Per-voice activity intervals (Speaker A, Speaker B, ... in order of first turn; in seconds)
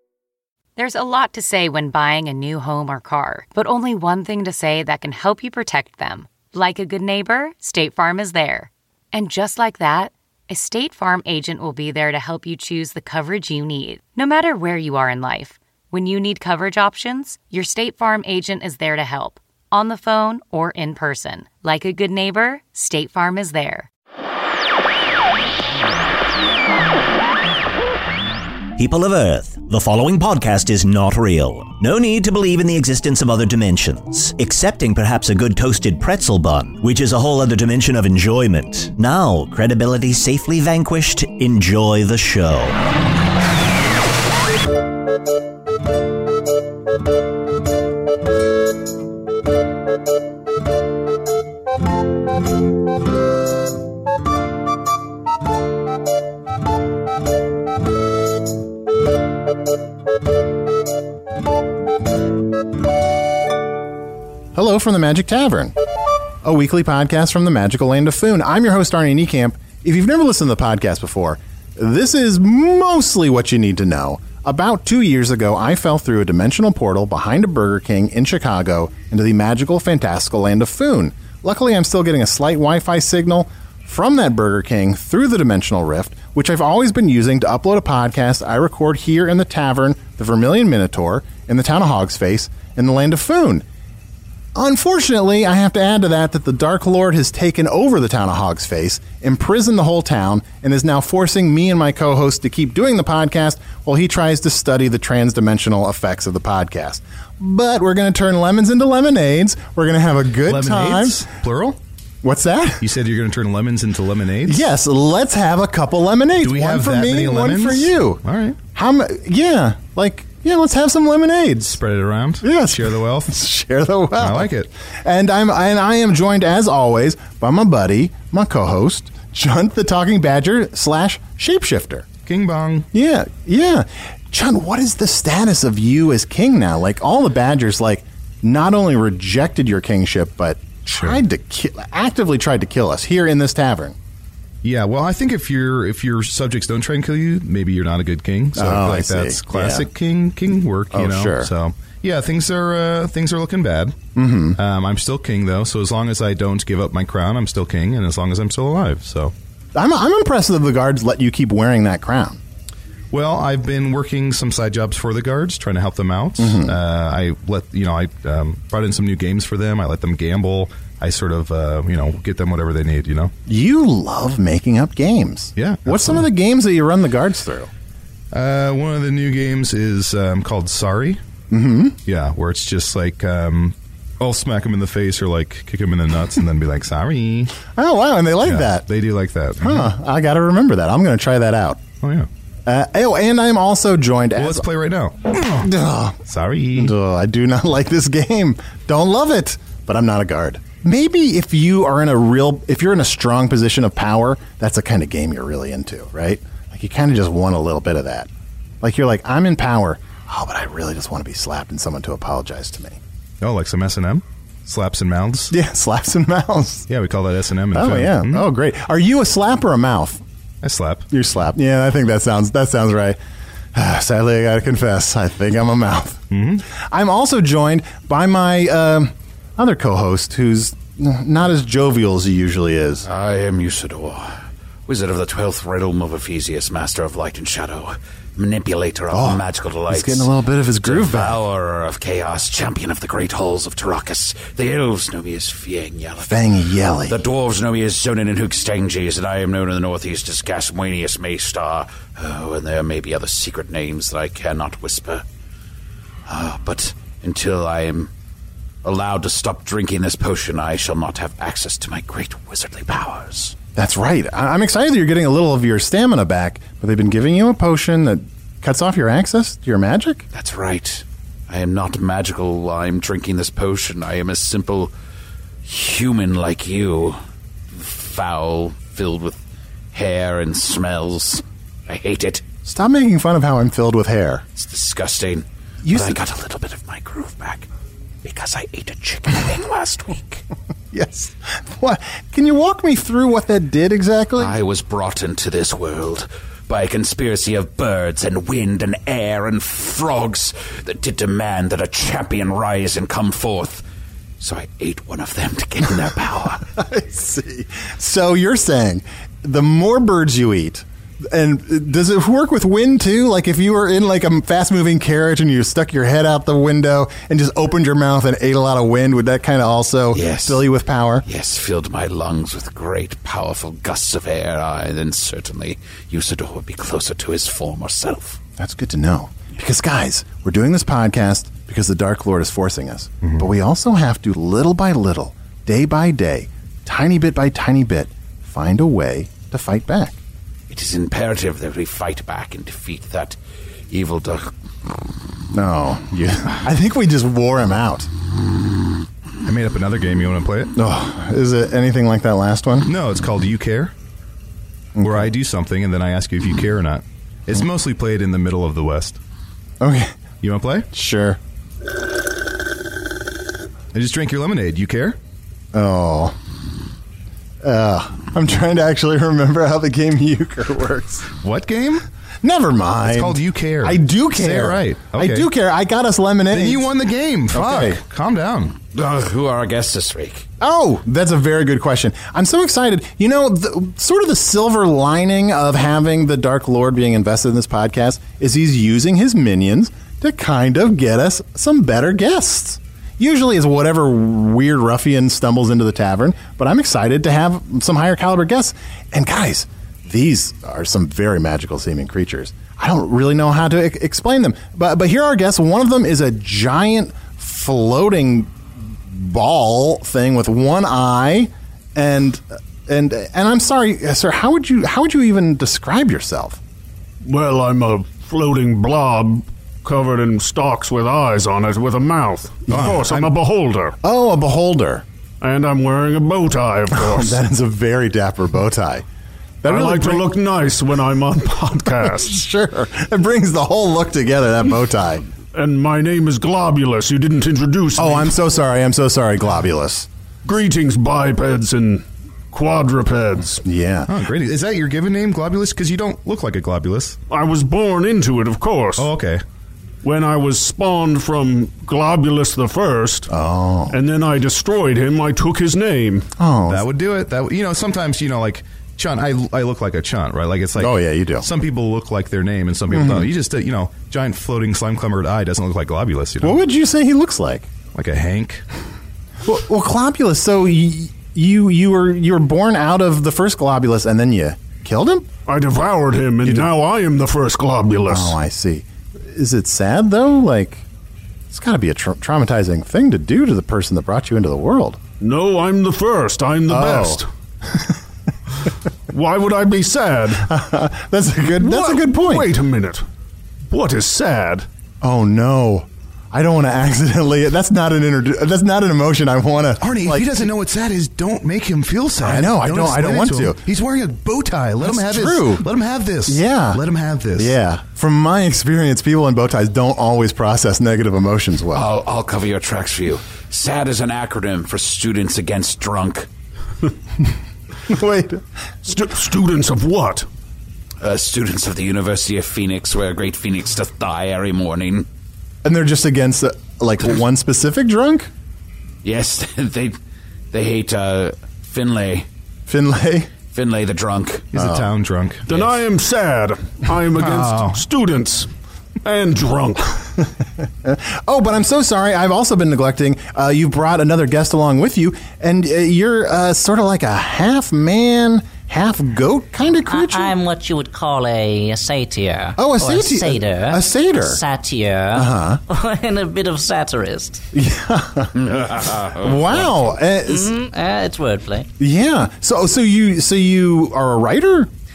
Speaker A: 0.8-23.9
Speaker B: 28.8-42.8
Speaker C: 64.5-65.7, 66.4-93.6, 94.5-111.2, 112.2-112.9, 114.5-118.2, 118.7-121.8, 122.4-132.1, 132.9-144.0, 148.6-149.9, 150.9-151.5, 154.2-154.6, 159.8-162.4, 166.4-166.8, 173.5-177.7, 181.5-182.0, 187.7-188.8, 189.6-191.8, 192.7-194.7, 195.6-196.2, 196.7-208.3, 208.8-213.0, 215.5-216.9, 217.7-220.2, 221.1-223.2, 223.7-233.1, 239.1-241.4, 246.2-247.2, 263.8-270.2, 282.6-284.4, 285.9-286.2, 290.9-294.6, 306.8-321.2, 328.6-340.2, 345.5-348.1, 350.8-352.9, 355.0-355.3, 359.8-360.2, 360.9-361.4, 365.7-366.4, 367.6-371.3, 372.4-376.9, 377.5-378.0, 380.6-416.6, 422.7-423.3, 424.0-425.1, 426.9-429.1, 429.6-430.4, 432.0-435.3, 438.0-440.1, 443.6-444.1, 453.3-454.0, 456.4-456.8, 460.8-461.5, 462.9-463.3, 466.4-467.7, 469.4-475.3, 476.4-476.7, 478.1-480.9, 481.5-485.0, 486.7-488.0, 490.4-492.5, 495.0-500.3, 502.2-503.6, 504.8-505.7, 506.3-506.8, 507.4-511.9, 517.9-518.4, 525.6-528.3, 532.7-533.3, 534.5-534.9, 540.8-550.4, 552.6-554.4, 555.1-555.6, 557.5-560.5, 561.8-564.7
Speaker D: 110.5-111.8, 112.8-114.6, 116.4-118.6, 121.7-123.3, 124.2-124.7, 132.2-132.9, 144.6-154.0, 154.6-159.3, 163.1-173.3, 175.6-176.2, 178.3-181.2, 182.1-187.6, 188.4-189.9, 192.0-192.3, 194.4-195.7, 196.3-196.9, 213.4-215.5, 216.9-218.4, 220.6-221.1, 226.3-226.6, 349.4-350.7, 352.9-353.9, 355.0-359.2, 360.4-360.9, 363.9-365.2, 371.4-372.1, 373.1-375.5, 376.5-378.8, 422.7-423.0, 444.1-447.2, 449.0-449.4, 456.7-466.6, 467.9-468.6, 499.8-507.6, 534.5-535.5, 537.2-537.8
Speaker E: 233.1-240.3, 240.8-255.2, 256.3-258.1, 258.8-263.6, 270.3-274.9, 275.6-277.2, 277.7-279.4, 279.9-282.4, 284.6-287.7, 288.2-290.4, 294.4-303.9, 304.4-306.7, 320.1-320.7, 321.2-328.4, 340.7-343.4, 343.9-344.5, 378.9-380.5, 511.7-516.3, 521.0-525.1, 529.0-530.0, 530.5-532.3, 533.5-534.5, 558.4-559.8
Speaker F: 417.2-424.0, 425.4-427.4, 429.6-432.4, 435.5-438.3, 440.4-443.6, 447.3-449.1, 450.0-453.3, 453.9-456.3, 475.5-478.4, 485.2-487.3, 489.1-490.5, 491.6-493.0, 493.7-494.7, 518.9-520.3, 535.5-538.5, 539.0-540.1
Speaker G: 549.9-557.4, 560.2-561.7